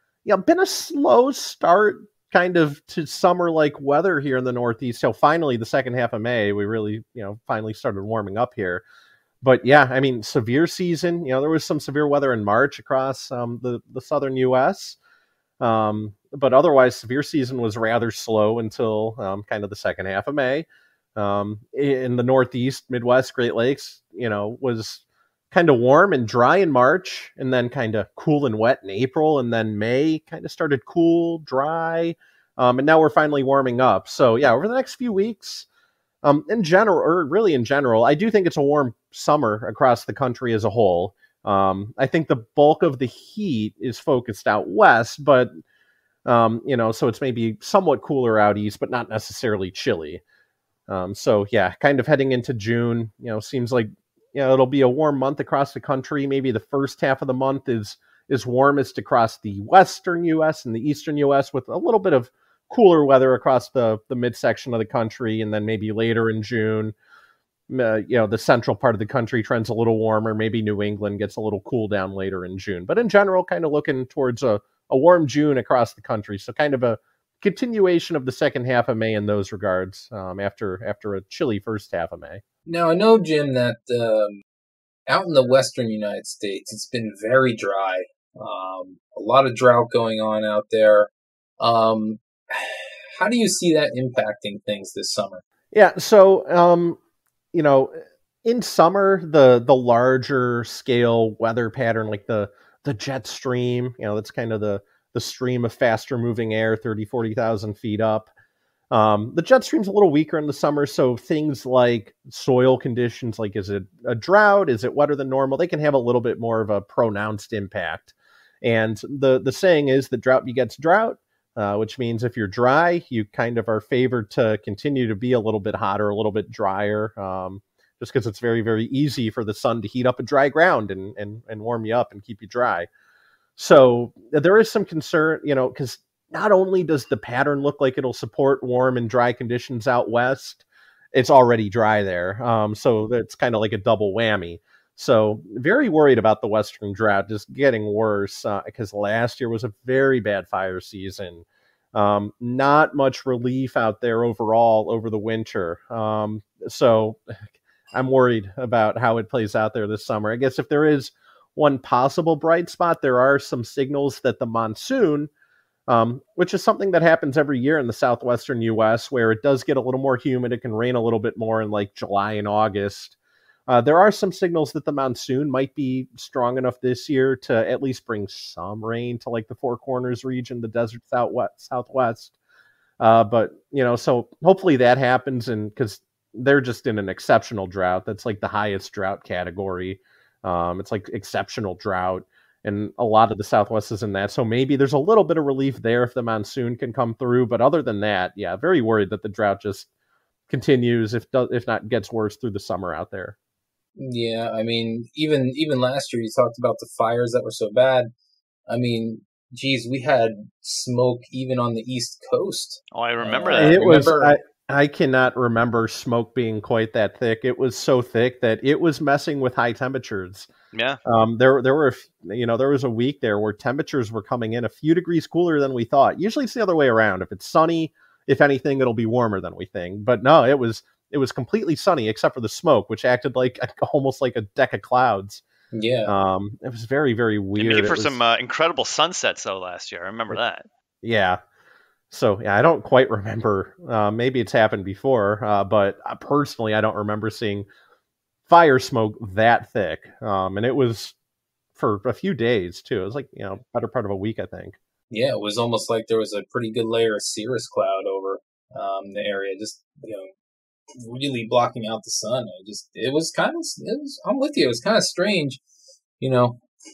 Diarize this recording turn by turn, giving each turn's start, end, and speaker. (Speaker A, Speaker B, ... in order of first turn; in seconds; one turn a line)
Speaker A: 0.2-8.8
Speaker A: 9.4-15.0
Speaker A: 15.6-35.7
Speaker A: 36.2-45.6
Speaker A: 46.2-50.2
Speaker A: 50.9-66.9
Speaker A: 67.7-82.4
Speaker B: 82.7-84.4
Speaker B: 85.1-95.4
Speaker A: 95.7-97.0
Speaker A: 97.5-108.3
Speaker A: 108.9-132.9
Speaker A: 133.6-157.4
Speaker A: 157.9-165.3
Speaker A: 165.9-173.2
Speaker A: 173.7-182.3
Speaker A: 183.0-199.9
Speaker A: 200.5-203.3
Speaker B: 204.0-208.1
Speaker B: 208.7-214.4
Speaker C: 212.9-213.8
Speaker A: 213.5-220.5
Speaker C: 220.7-221.0
Speaker A: 221.0-235.4
Speaker B: 235.7-236.2
Speaker A: 236.1-238.2
Speaker C: 237.6-240.7
Speaker A: 241.0-241.4
Speaker A: 242.1-247.7
Speaker A: 248.5-251.2
Speaker A: 251.8-254.8
Speaker B: 255.1-260.3
Speaker B: 261.0-265.6
Speaker B: 266.2-266.6